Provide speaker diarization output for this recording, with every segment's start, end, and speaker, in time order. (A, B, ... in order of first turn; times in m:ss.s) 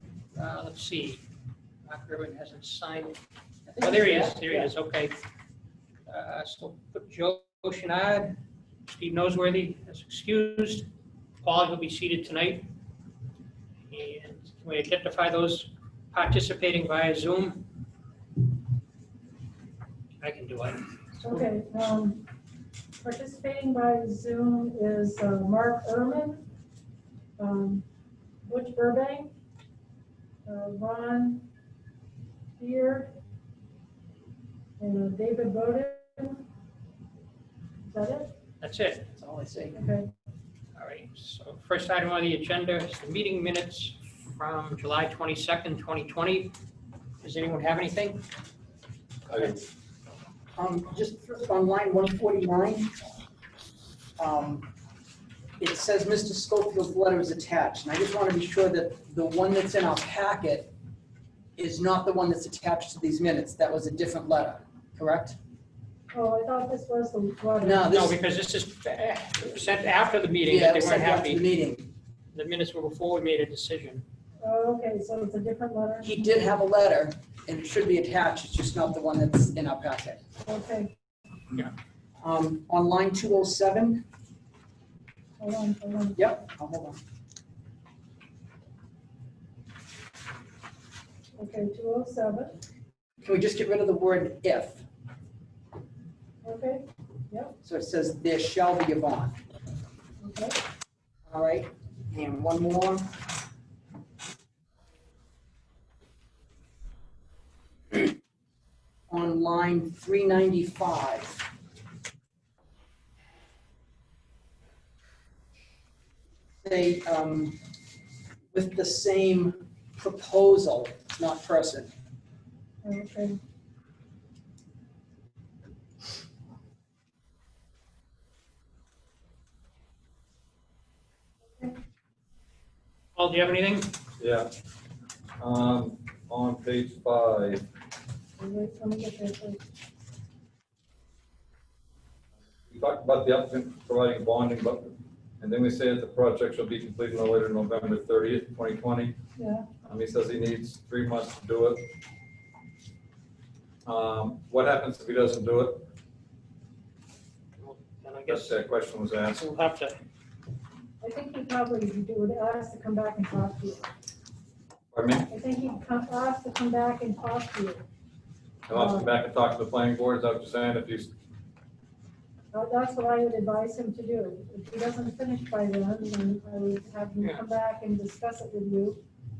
0:00.3-0:01.2 A
0:01.9-0:03.2 A
0:03.7-0:04.7 B
0:03.8-0:05.2 A
0:06.1-0:10.9 A
0:11.4-0:12.7 A
0:13.9-0:17.6 A
0:20.2-0:20.9 A
0:21.2-0:22.2 C
0:23.0-0:26.4 C
0:27.4-0:27.8 C
0:28.4-0:29.3 C
0:30.4-0:31.4 C
0:32.6-0:33.1 C
0:34.8-0:36.4 C
0:37.9-0:38.3 C
0:38.6-0:39.1 A
0:39.1-0:39.8 B
0:39.7-0:40.1 C
0:40.7-0:46.5 A
0:47.2-0:48.2 A
0:49.3-0:49.6 D
0:50.6-0:52.9 B
0:54.2-0:54.7 B
0:55.6-1:00.7 B
1:01.6-1:05.4 B
1:06.1-1:07.9 C
1:07.6-1:08.2 B
1:07.8-1:11.4 A
1:10.4-1:11.9 B
1:12.3-1:14.0 A
1:14.4-1:16.2 C
1:16.0-1:20.2 B
1:20.4-1:20.9 C
1:22.2-1:24.0 B
1:25.4-1:26.3 C
1:26.2-1:27.0 B
1:31.4-1:32.6 C
1:33.2-1:34.8 B
1:36.4-1:37.5 C
1:37.6-1:39.3 B
1:40.2-1:40.6 C
1:41.3-1:43.1 B
1:49.1-1:51.4 B
1:56.6-1:57.6 B
1:58.5-2:01.9 B
2:02.8-2:03.4 C
2:13.2-2:13.9 A
2:14.2-2:14.5 D
2:15.4-2:17.6 D
2:18.4-2:19.6 C
2:22.7-2:29.2 D
2:29.4-2:29.6 C
2:29.8-2:31.8 D
2:33.8-2:35.8 D
2:37.6-2:38.6 A
2:38.2-2:39.5 D
2:39.3-2:39.9 A
2:41.0-2:43.9 C
2:44.9-2:45.3 D
2:45.3-2:47.8 C
2:48.7-2:51.1 D
2:48.7-2:49.1 C
2:52.5-2:59.0 C
2:57.2-2:57.5 A